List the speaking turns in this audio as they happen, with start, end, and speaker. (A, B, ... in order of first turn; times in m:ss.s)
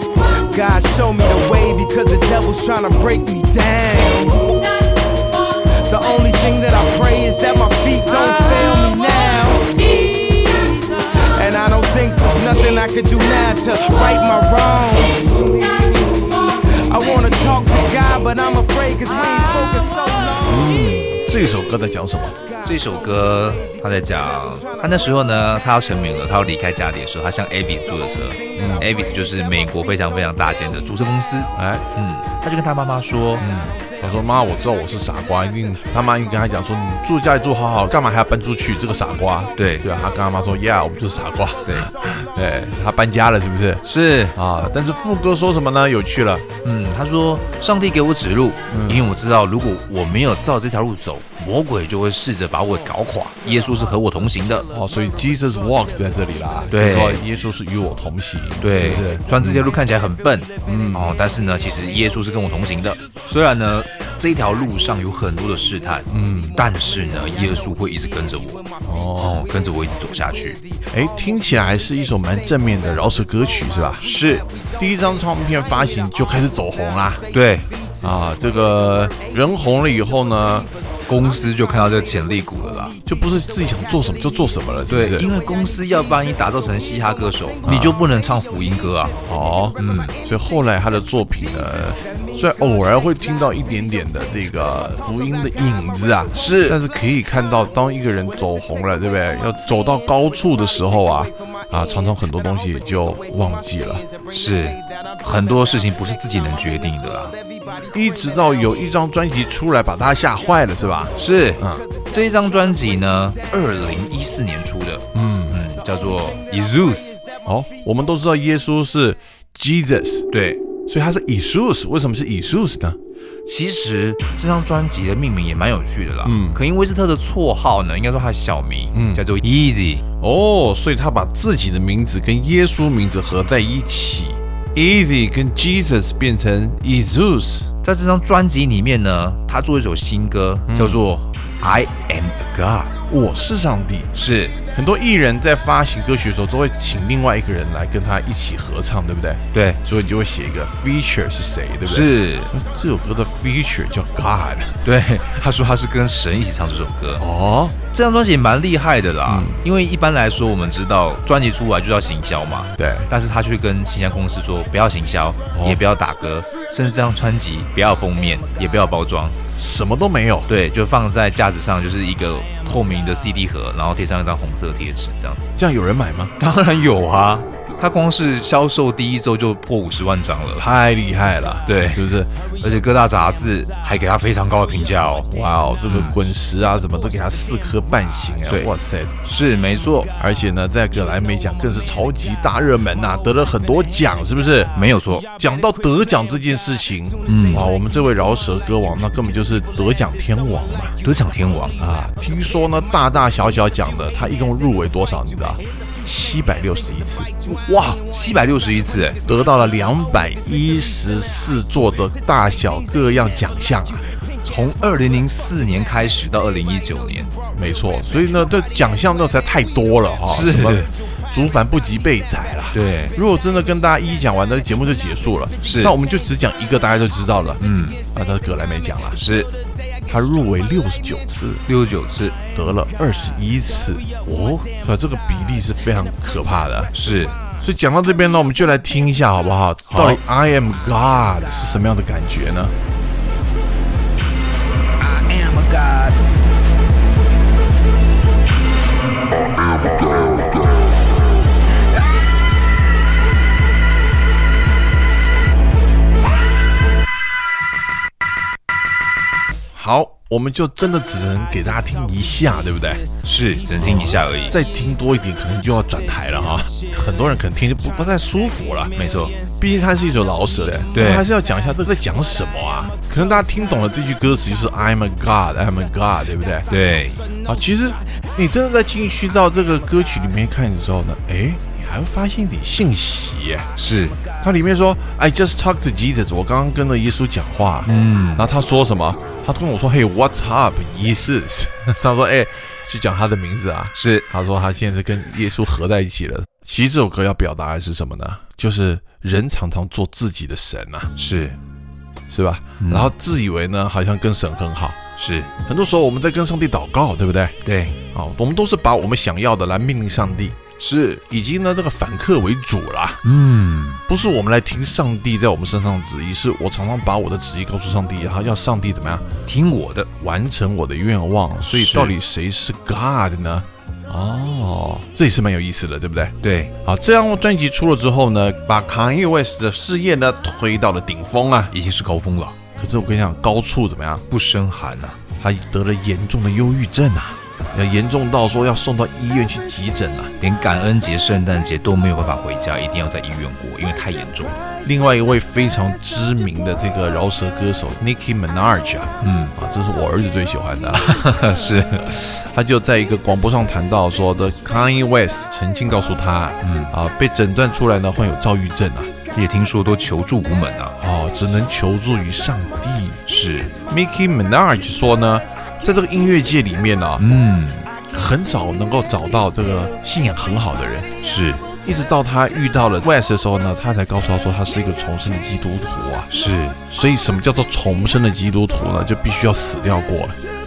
0:00.2-0:04.6 A
0:05.8-0:20.8 A
0:20.4-0:22.4 B
0:22.6-0:33.5 C
0:28.6-0:28.9 B
0:31.6-0:31.9 B
0:33.4-0:46.4 B
0:39.6-0:39.9 C
0:43.8-0:44.4 C
0:46.6-0:54.7 C
0:48.7-0:49.0 B
0:54.7-0:59.7 B
0:56.7-0:57.2 C
0:58.6-1:10.6 C
1:00.6-1:01.2 B
1:06.1-1:06.6 B
1:08.8-1:09.4 B
1:10.9-1:14.0 B
1:14.0-1:14.4 C
1:14.8-1:17.2 B
1:17.3-1:17.7 C
1:18.0-1:20.7 B
1:21.1-1:23.0 C
1:23.1-1:25.3 B
1:24.9-1:29.2 C
1:27.6-1:28.0 B
1:29.2-1:44.0 B
1:29.8-1:30.2 C
1:36.3-1:36.8 C
1:44.3-1:47.4 C
1:47.9-1:51.9 B
1:51.2-1:57.2 C
1:55.1-1:55.6 B
1:57.4-2:00.3 B
2:00.3-2:00.6 C
2:00.9-2:03.0 B
2:03.5-2:10.0 C
2:06.2-2:06.6 B
2:08.9-2:09.2 B
2:10.2-2:17.7 B
2:17.8-2:22.9 C
2:20.7-2:21.0 B
2:23.1-2:24.1 B
2:24.1-2:24.6 C
2:24.7-2:34.8 B
2:29.5-2:29.8 C
2:31.9-2:32.5 C
2:34.8-2:37.2 C
2:37.2-2:37.8 B
2:37.9-2:49.4 C
2:39.3-2:39.6 B
2:42.8-2:43.1 B
2:45.5-2:45.8 B
2:49.6-2:50.5 B
2:50.5-2:55.5 C
2:55.6-2:56.3 B
2:56.4-3:00.7 C
3:00.6-3:02.3 B
3:01.7-3:02.0 C
3:02.6-3:05.3 C
3:05.3-3:09.2 B
3:05.9-3:06.2 C
3:09.2-3:10.1 C
3:10.2-3:14.8 B
3:14.8-3:15.3 C
3:15.3-3:21.0 B
3:17.3-3:17.7 C
3:21.0-3:21.8 C
3:21.8-3:27.3 B
3:27.4-3:29.2 C
3:29.2-3:34.1 B
3:34.4-3:37.3 C
3:37.5-3:49.2 B
3:40.3-3:40.9 C
3:42.7-3:43.2 C
3:45.6-3:46.0 C
3:47.6-3:48.0 C
3:49.2-3:49.5 C
3:50.1-3:51.6 B
3:51.7-3:52.4 C
3:52.5-3:54.1 B
3:54.2-3:54.7 C
3:54.8-3:56.9 B
3:56.9-3:57.4 C
3:57.6-4:02.8 B
3:59.9-4:00.2 C
4:05.0-4:06.2 A
4:19.7-4:23.0 B
4:23.2-4:24.6 C
4:23.8-4:29.0 B
4:29.0-4:29.4 C
4:29.6-4:36.7 B
4:30.9-4:31.3 C
4:36.7-4:37.2 C
4:37.4-4:43.7 B
4:43.8-4:44.2 C
4:44.4-5:01.1 B
4:47.8-4:48.5 C
4:53.9-4:54.3 C
5:01.2-5:01.6 C
5:02.3-5:05.0 B
5:02.8-5:03.1 C
5:05.2-5:05.5 C
5:05.6-5:07.6 B
5:07.6-5:08.0 C
5:08.1-5:10.6 B
5:10.8-5:11.2 C
5:11.3-5:13.2 B
5:13.2-5:14.0 C
5:14.1-5:19.3 B
5:19.5-5:20.1 C
5:20.2-5:31.7 B
5:21.7-5:22.2 C
5:26.4-5:26.7 C
5:31.7-5:32.6 C
5:32.8-5:34.2 B
5:34.3-5:35.2 C
5:35.4-5:40.3 B
5:40.4-5:44.6 C
5:44.8-5:51.4 B
5:49.2-5:49.6 C
5:51.0-5:52.2 C
5:52.0-5:59.1 B
5:56.6-5:56.9 C
5:59.3-6:01.0 C
6:01.0-6:03.2 B
6:03.3-6:03.8 C
6:03.9-6:07.3 B
6:07.2-6:07.9 C
6:08.1-6:11.1 B
6:11.2-6:11.6 C
6:11.8-6:16.3 B
6:16.3-6:16.8 C
6:16.9-6:20.4 B